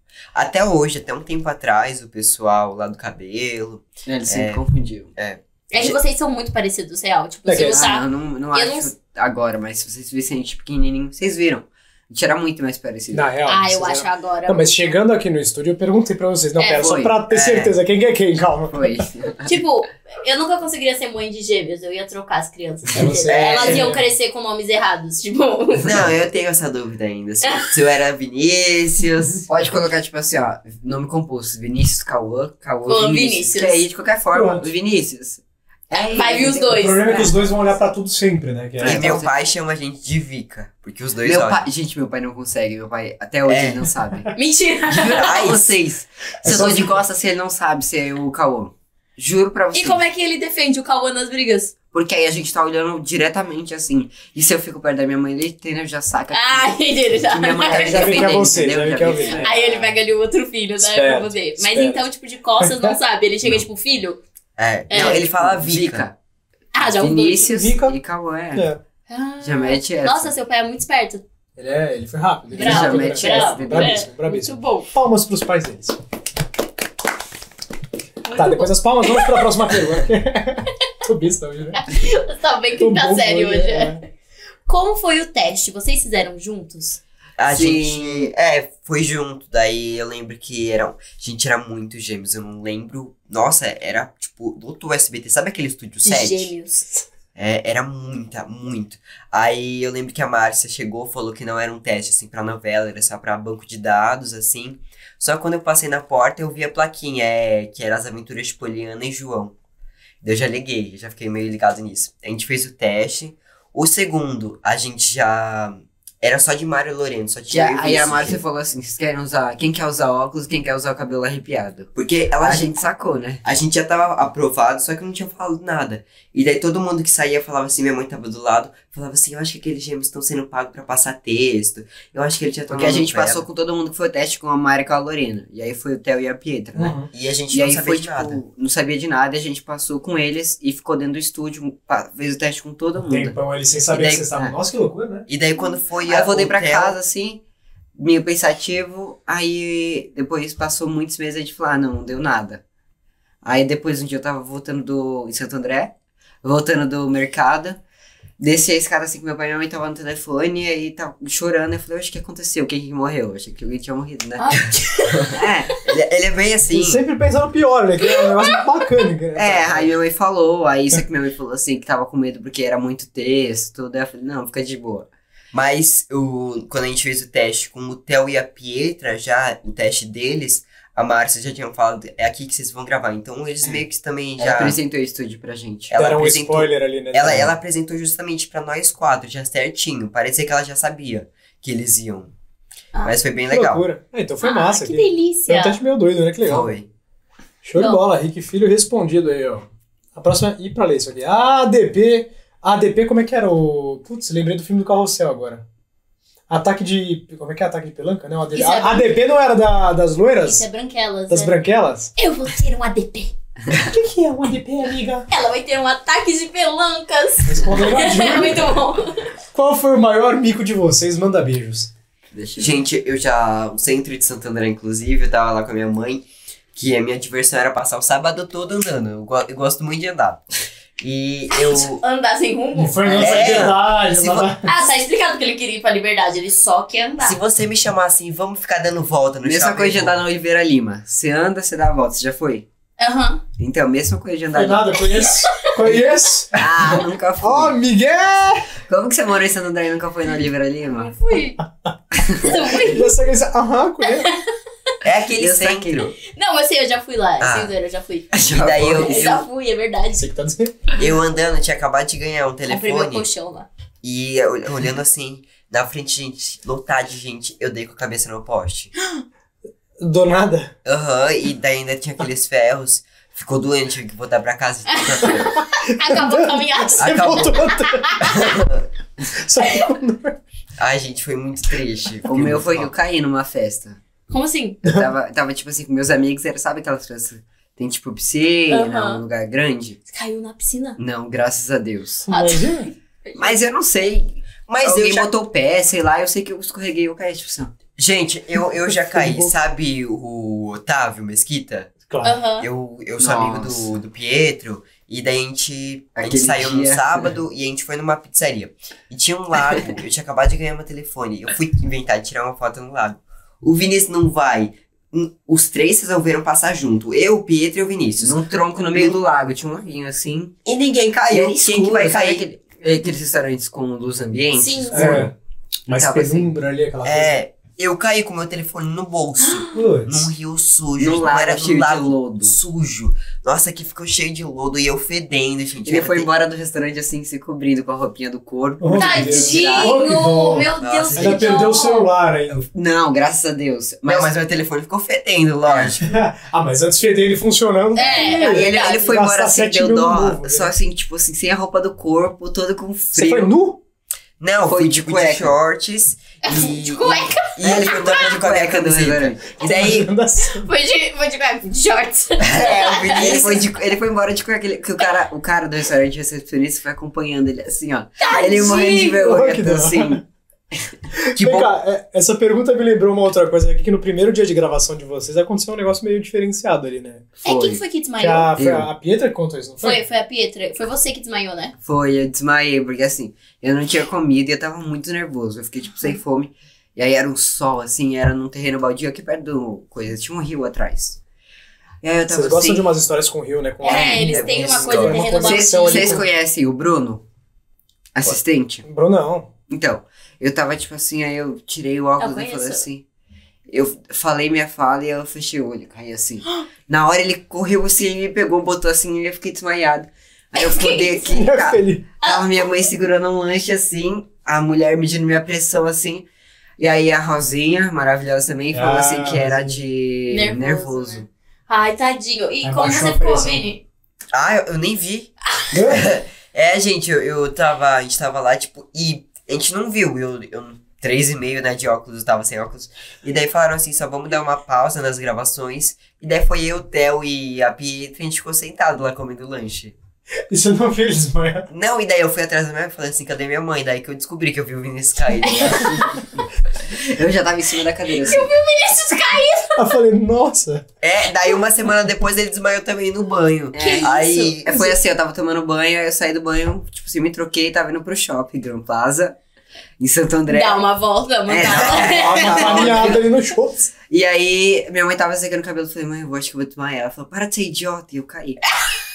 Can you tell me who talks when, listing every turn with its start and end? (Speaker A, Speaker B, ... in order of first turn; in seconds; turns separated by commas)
Speaker A: 0.3-4.6, Speaker B: 4.0-5.1, Speaker A: 5.2-6.0, Speaker C: 5.7-8.9, Speaker D: 7.5-7.9, Speaker B: 7.7-13.3, Speaker D: 13.1-19.0, Speaker C: 13.5-14.9, Speaker C: 16.6-16.9, Speaker B: 16.7-17.1, Speaker A: 17.3-17.7, Speaker B: 18.7-19.5, Speaker C: 19.4-26.1, Speaker D: 22.9-24.0, Speaker A: 23.3-24.0, Speaker A: 25.8-29.4, Speaker C: 27.4-27.7, Speaker B: 29.5-37.4, Speaker C: 32.9-33.8, Speaker D: 34.3-34.6, Speaker C: 36.0-37.2, Speaker D: 36.7-39.2, Speaker B: 38.8-39.3, Speaker A: 38.8-41.6, Speaker B: 41.2-44.3, Speaker A: 43.5-43.8, Speaker C: 44.3-45.5, Speaker A: 44.9-45.8, Speaker B: 45.0-50.0, Speaker D: 46.4-47.0, Speaker A: 46.4-46.9, Speaker C: 49.7-51.7, Speaker B: 51.9-59.8, Speaker C: 56.3-58.4, Speaker D: 57.7-59.7, Speaker C: 59.4-64.2, Speaker D: 60.8-62.0, Speaker D: 62.6-63.0, Speaker A: 64.6-66.1, Speaker C: 64.9-65.2, Speaker B: 64.9-66.1, Speaker C: 66.7-67.5, Speaker B: 66.9-68.7, Speaker D: 67.5-68.0, Speaker D: 68.5-68.8, Speaker C: 69.1-71.2, Speaker B: 69.4-70.3, Speaker D: 71.5-76.0, Speaker C: 72.5-74.9, Speaker B: 72.5-74.1, Speaker C: 78.3-79.4, Speaker D: 78.3-81.9, Speaker C: 81.7-84.0, Speaker D: 82.8-84.0, Speaker C: 84.7-87.0, Speaker A: 87.4-96.5, Speaker B: 87.5-88.3, Speaker C: 96.0-97.0, Speaker A: 97.3-109.5, Speaker A: 110.2-118.4, Speaker B: 117.5-121.9, Speaker A: 121.9-122.7, Speaker B: 122.4-123.4, Speaker A: 123.4-133.4, Speaker B: 132.7-137.0, Speaker D: 136.7-137.1, Speaker A: 137.1-138.4, Speaker B: 137.5-143.3, Speaker D: 143.0-145.2, Speaker B: 143.9-144.5, Speaker A: 145.3-146.9, Speaker B: 146.0-147.4, Speaker B: 147.9-152.6, Speaker B: 153.4-155.9, Speaker B: 156.4-157.8, Speaker B: 158.4-164.5, Speaker C: 164.4-165.3, Speaker B: 165.3-165.8, Speaker A: 165.8-167.0, Speaker D: 166.7-169.9, Speaker C: 168.0-168.6, Speaker B: 169.3-175.1, Speaker A: 175.5-184.8, Speaker B: 184.4-185.9, Speaker A: 185.9-192.3, Speaker D: 185.9-187.6, Speaker A: 193.0-193.8, Speaker D: 193.5-196.7, Speaker C: 194.4-195.8, Speaker A: 196.4-196.9, Speaker D: 197.6-205.6, Speaker D: 206.5-210.6, Speaker C: 208.5-209.1, Speaker C: 210.4-211.5, Speaker D: 211.3-212.1, Speaker C: 212.2-213.3, Speaker D: 213.9-215.3, Speaker C: 215.3-219.3, Speaker D: 217.4-218.7, Speaker D: 219.5-221.9, Speaker B: 222.3-222.8, Speaker A: 222.6-230.4, Speaker A: 231.0-232.0, Speaker C: 231.7-233.7, Speaker D: 232.7-234.7, Speaker A: 233.2-234.5, Speaker C: 234.6-237.4, Speaker A: 237.2-240.2, Speaker B: 239.4-242.6, Speaker C: 243.0-243.4, Speaker B: 243.6-245.0, Speaker D: 244.5-246.6, Speaker B: 246.5-247.8, Speaker D: 247.4-248.7, Speaker B: 248.9-251.1, Speaker C: 251.0-251.6, Speaker C: 252.3-253.1, Speaker D: 252.5-254.3, Speaker C: 254.0-254.4, Speaker A: 255.0-256.1, Speaker B: 255.4-256.1, Speaker C: 256.2-258.3, Speaker A: 257.4-257.7, Speaker A: 258.3-259.4, Speaker B: 258.3-259.3, Speaker C: 258.9-260.2, Speaker D: 260.1-260.7, Speaker A: 261.0-263.2, Speaker C: 262.7-263.7, Speaker A: 264.0-268.9, Speaker D: 270.0-270.7, Speaker A: 270.8-275.5, Speaker C: 274.9-278.5, Speaker D: 275.6-278.5, Speaker A: 277.0-277.6, Speaker A: 278.2-278.8, Speaker D: 279.3-280.5, Speaker A: 280.8-282.9, Speaker B: 282.3-284.0, Speaker C: 284.3-284.8, Speaker D: 284.8-285.1, Speaker B: 284.8-290.0, Speaker C: 288.7-289.2, Speaker C: 290.1-291.0, Speaker B: 291.0-292.3, Speaker D: 292.3-292.9, Speaker C: 292.3-293.6, Speaker B: 293.4-297.7, Speaker A: 294.7-295.3, Speaker A: 298.0-301.9, Speaker D: 299.1-299.5, Speaker D: 302.1-302.4, Speaker C: 302.2-302.7, Speaker A: 302.6-318.4, Speaker B: 303.2-304.0, Speaker B: 306.2-307.3, Speaker B: 318.2-320.5, Speaker A: 320.6-322.4, Speaker B: 321.3-325.3, Speaker C: 324.6-325.3, Speaker D: 324.9-325.3, Speaker B: 325.9-326.5, Speaker D: 325.9-327.4, Speaker A: 327.0-336.3, Speaker C: 329.4-329.8, Speaker D: 329.7-330.3, Speaker B: 331.0-332.5, Speaker B: 335.8-340.0, Speaker D: 338.8-342.6, Speaker C: 338.9-342.1, Speaker A: 340.8-341.7, Speaker B: 342.7-344.3, Speaker A: 344.0-346.0, Speaker D: 346.0-350.7, Speaker C: 347.9-349.0, Speaker B: 348.1-353.5, Speaker D: 353.1-353.8, Speaker A: 354.4-360.1, Speaker B: 354.6-355.5, Speaker C: 356.4-358.3, Speaker B: 357.6-359.5, Speaker D: 359.6-360.6, Speaker C: 360.5-363.4, Speaker A: 362.4-363.7, Speaker B: 363.1-370.2, Speaker C: 368.2-369.1, Speaker D: 368.5-370.2, Speaker D: 371.1-377.3, Speaker A: 371.4-371.7, Speaker B: 377.4-377.8, Speaker C: 377.4-378.6, Speaker D: 378.2-380.0, Speaker B: 378.6-378.9, Speaker C: 379.8-381.7, Speaker B: 381.8-391.2, Speaker B: 392.0-392.9, Speaker D: 392.3-396.2, Speaker C: 393.8-396.2, Speaker B: 393.9-397.2, Speaker A: 394.4-395.2, Speaker B: 398.1-398.8, Speaker D: 398.2-399.5, Speaker B: 399.7-403.0, Speaker C: 402.2-402.8, Speaker B: 403.7-416.2, Speaker C: 410.6-411.2, Speaker D: 411.3-412.0, Speaker B: 416.8-421.2, Speaker D: 418.7-419.8, Speaker C: 420.3-423.8, Speaker D: 422.6-423.6, Speaker A: 424.3-425.3, Speaker D: 425.7-426.1, Speaker A: 425.9-439.9, Speaker D: 440.5-441.7, Speaker A: 441.7-446.4, Speaker C: 445.4-446.1, Speaker B: 446.9-448.5, Speaker C: 448.2-449.9, Speaker D: 449.8-450.8, Speaker A: 451.0-454.9, Speaker B: 453.7-459.4, Speaker C: 453.8-454.9, Speaker B: 460.0-460.8, Speaker C: 460.5-463.0, Speaker B: 461.5-463.2, Speaker D: 462.1-463.9, Speaker A: 462.4-462.7, Speaker B: 464.1-468.6